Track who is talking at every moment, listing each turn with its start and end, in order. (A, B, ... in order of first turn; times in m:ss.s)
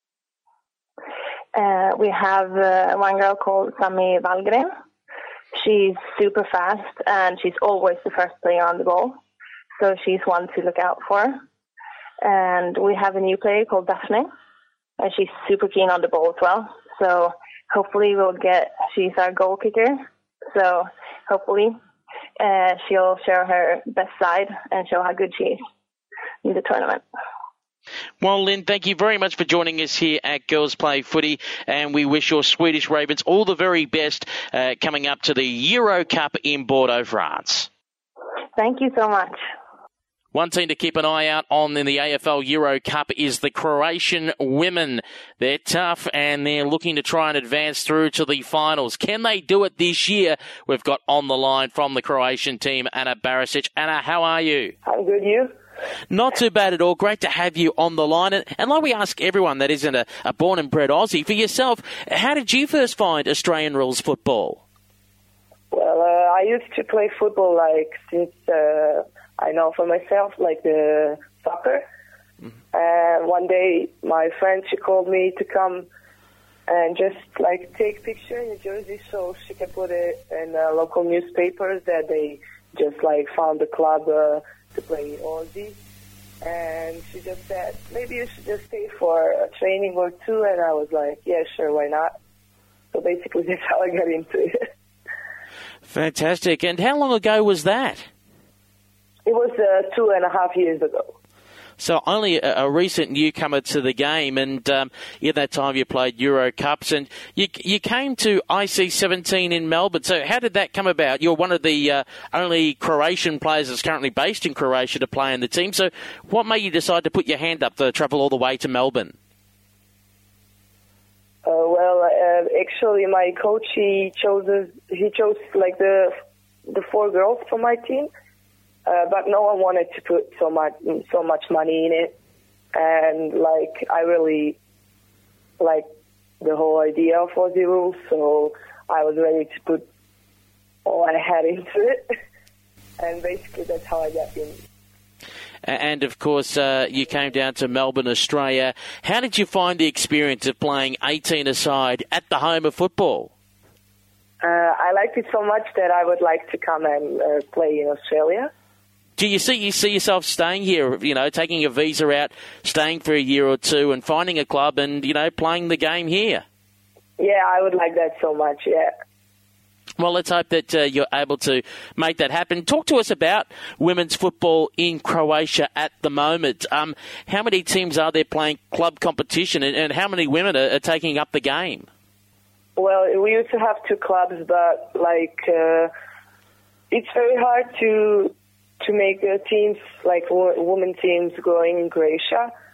0:01.5-0:04.7 A
0:05.5-0:09.2 A
0:09.8-0:11.4 A
0:12.2-0:14.3 A
0:15.0-0:21.8 A
0:22.4-0:25.6 A
0:26.4-0:27.0 A
0:28.2-0:37.7 B
0:38.6-0:39.4 A
0:40.3-0:54.7 B
0:54.8-0:55.5 C
0:56.1-1:04.6 B
1:05.7-1:11.8 C
1:12.7-1:15.9 C
1:16.7-1:25.8 C
1:26.4-1:32.2 C
1:32.9-1:34.7 C
1:35.9-1:38.1 B
1:39.2-1:41.1 C
1:41.8-1:59.2 B
2:01.4-2:06.1 C
2:06.7-2:08.1 C
2:08.9-2:12.2 C
2:12.7-2:14.6 C
2:15.6-2:15.9 C
2:16.4-2:19.9 C
2:20.8-2:22.1 C
2:23.0-2:24.6 C
2:25.6-2:33.3 B
2:34.4-2:38.5 C
2:39.2-2:46.4 B
2:47.2-2:48.9 C
2:50.0-3:01.9 B
3:02.8-3:05.9 C
3:06.9-3:12.5 C